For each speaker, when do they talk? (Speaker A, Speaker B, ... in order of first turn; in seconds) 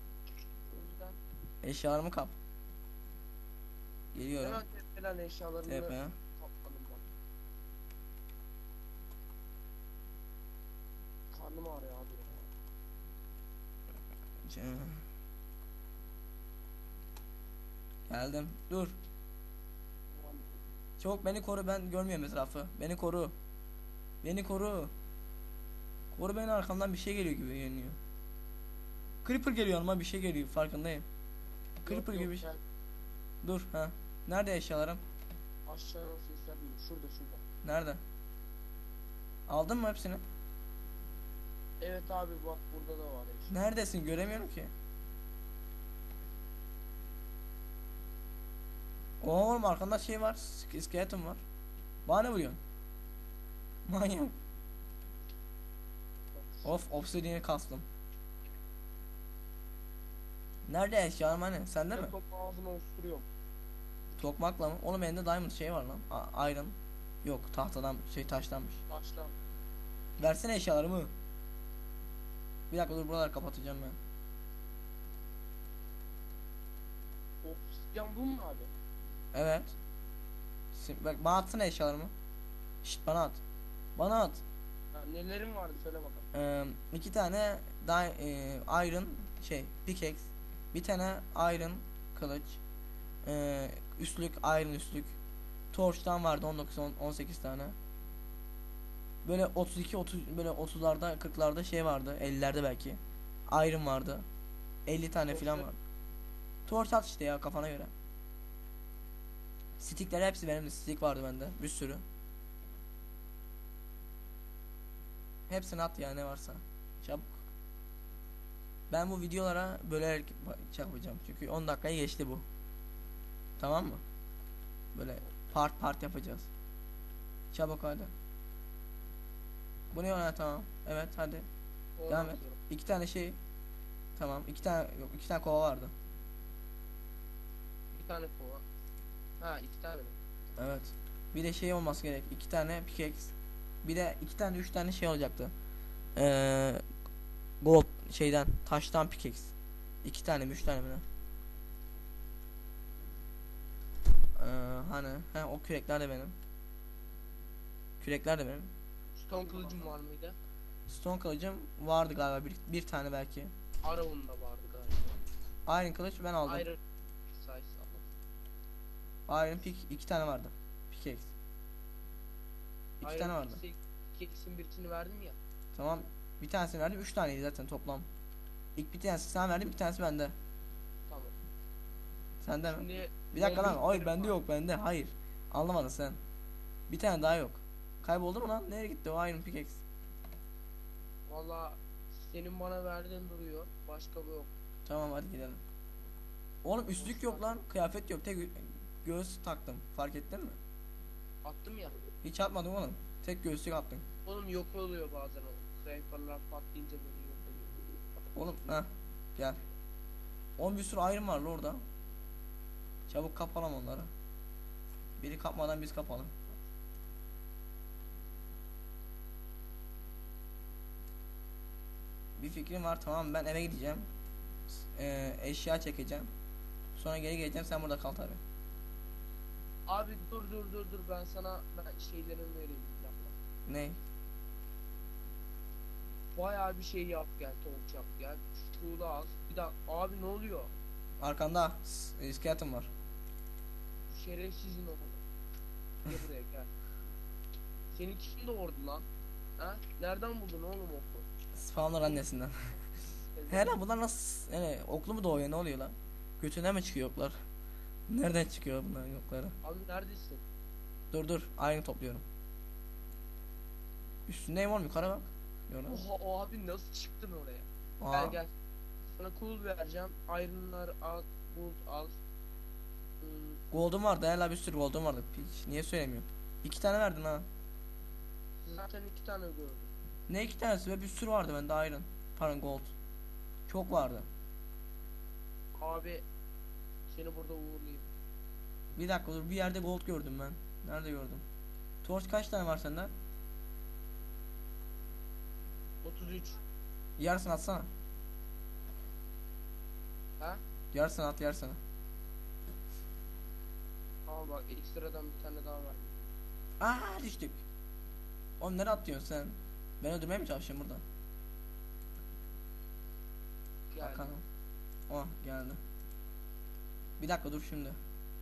Speaker A: 0.7-1.2, 4.4-7.0, 11.3-12.5, 20.1-20.5, 31.9-32.6, 35.7-37.4, 41.8-43.5, 56.3-56.7, 61.9-63.2, 68.9-69.3, 77.4-78.7, 84.9-86.3, 105.3-105.7, 132.0-132.6, 137.9-138.6, 139.4-140.2, 159.2-160.3, 163.8-165.2, 166.4-168.0, 173.0-175.4, 181.1-181.3, 182.6-184.4, 191.3-194.5, 196.9-197.6, 201.4-202.0, 204.2-207.9, 229.9-233.3, 236.3-240.7, 244.1-245.2, 246.0-246.7, 247.9-249.1, 249.6-251.3, 253.3-253.8, 259.6-260.4, 265.9-268.5, 269.1-272.2, 273.2-273.6, 278.6-279.9, 285.7-286.2, 287.1-288.1, 296.0-296.6, 304.3-306.1, 313.9-314.4
Speaker B: 1.6-2.4, 4.1-4.6, 5.7-6.1, 14.5-15.0, 18.1-19.0, 21.0-23.3, 24.2-24.9, 26.1-28.0, 29.2-31.0, 31.9-32.4, 33.4-35.0, 37.6-38.0, 39.5-40.2, 43.5-44.7, 49.2-51.4, 52.1-52.6, 53.9-54.3, 56.6-57.8, 60.7-62.1, 64.2-68.8, 70.2-71.1, 72.7-74.0, 79.3-79.7, 80.7-82.1, 82.8-83.4, 84.0-84.4, 86.3-92.6, 93.2-95.1, 95.7-97.7, 99.2-104.2, 104.9-105.8, 106.7-107.9, 109.8-112.0, 115.5-117.4, 118.9-122.4, 123.6-124.0, 124.9-126.5, 127.5-128.1, 129.9-131.5, 132.1-133.4, 134.2-135.9, 140.6-143.3, 143.8-145.5, 146.2-146.8, 147.6-149.5, 150.0-151.0, 154.4-156.3, 158.0-158.7, 160.9-163.5, 165.7-166.7, 169.3-171.3, 173.0-173.6, 175.7-178.1, 178.8-180.3, 182.4-186.2, 186.9-189.8, 194.8-195.6, 196.6-200.6, 202.2-204.0, 208.3-209.6, 210.6-211.8, 213.1-214.1, 215.2-216.3, 222.4-224.1, 224.9-226.3, 226.9-228.4, 233.7-234.0, 241.2-242.9, 251.5-252.5, 253.5-257.4, 258.1-259.5, 261.1-262.2, 264.3-266.0, 268.0-268.4, 273.7-277.5, 280.3-282.9, 283.7-284.3, 288.9-291.4, 292.0-293.1, 297.2-297.9, 300.9-301.8, 306.8-307.6, 308.6-311.0, 314.0-314.4, 315.1-315.8, 317.2-317.9